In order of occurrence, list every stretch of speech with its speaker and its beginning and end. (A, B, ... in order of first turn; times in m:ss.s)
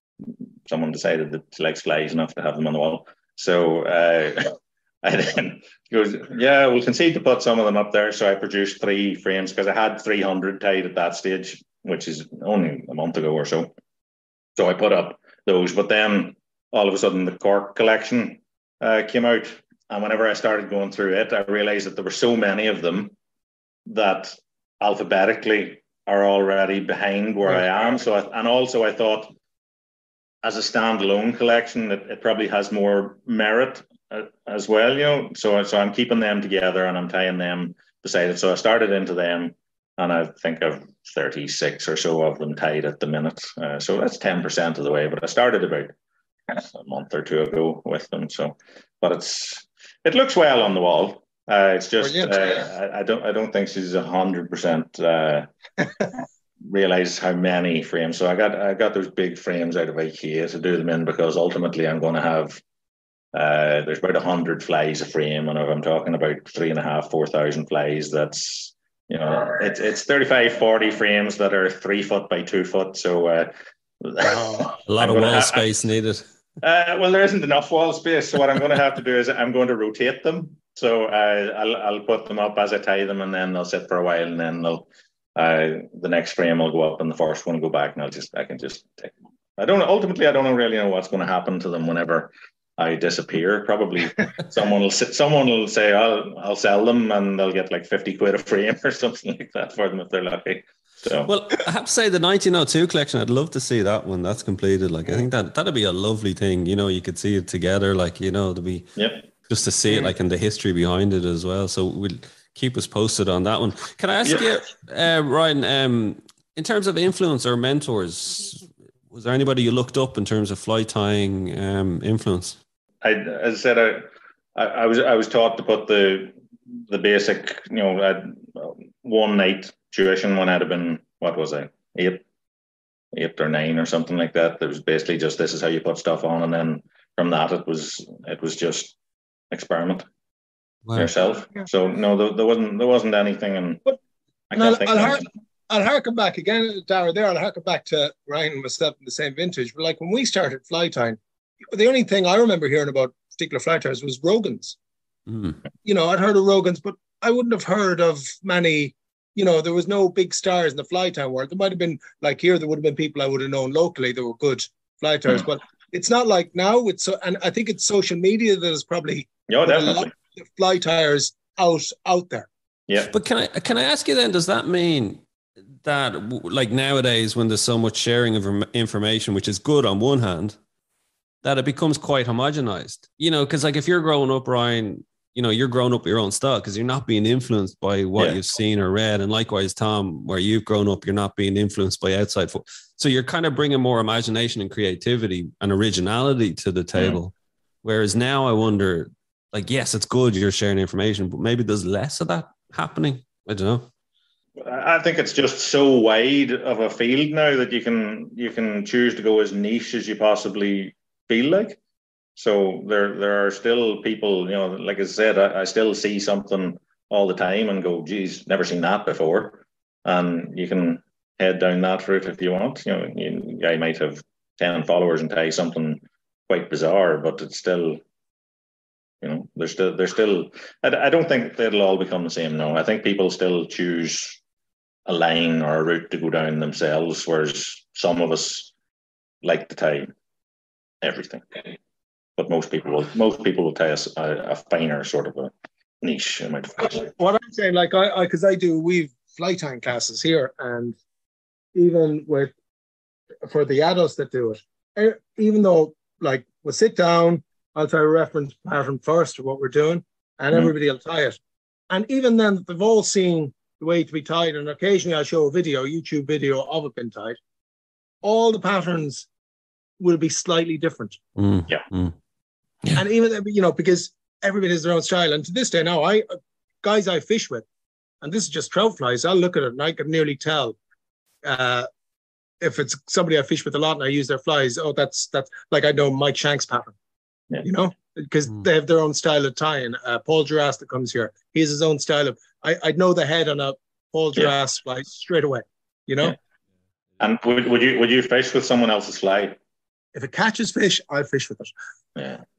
0:00.2-0:13.7 A
0:14.6-0:23.2 A
0:23.9-0:29.3 A
0:30.4-0:45.9 A
0:46.5-0:55.5 A
0:52.0-0:52.4 B
0:56.6-1:02.6 A
1:03.3-1:15.7 A
1:14.2-1:14.7 B
1:14.9-1:16.2 C
1:16.6-1:41.3 A
1:41.3-1:48.9 C
1:49.0-1:49.3 A
1:49.5-2:02.6 C
2:03.0-2:06.3 A
2:06.9-2:12.3 A
2:13.1-2:19.0 A
2:19.5-2:20.1 A
2:20.9-2:21.1 C
2:21.0-2:23.8 A
2:24.5-2:25.3 A
2:24.6-2:31.2 B
2:31.7-2:34.8 B
2:35.3-2:35.6 C
2:35.8-2:52.5 B
2:49.5-2:50.1 A
2:53.1-2:55.2 C
2:55.8-3:00.6 C
3:01.4-3:23.9 C
3:17.0-3:17.2 A
3:24.6-3:31.8 A
3:32.4-3:48.0 A
3:49.2-3:54.4 A
3:55.1-3:58.7 A
3:59.4-4:00.1 A
4:01.0-4:01.8 A
4:02.4-4:07.1 A
4:06.8-4:11.0 B
4:11.7-4:12.5 B
4:13.4-4:21.4 B
4:21.9-4:27.4 B
4:28.2-4:29.3 B
4:30.0-4:31.2 B
4:31.4-4:32.2 C
4:33.0-4:37.6 B
4:38.2-4:40.8 B
4:41.4-4:41.9 B
4:42.6-4:47.0 B
4:47.6-4:56.4 B
4:57.2-4:59.6 A
5:00.2-5:01.7 B
5:02.2-5:02.4 A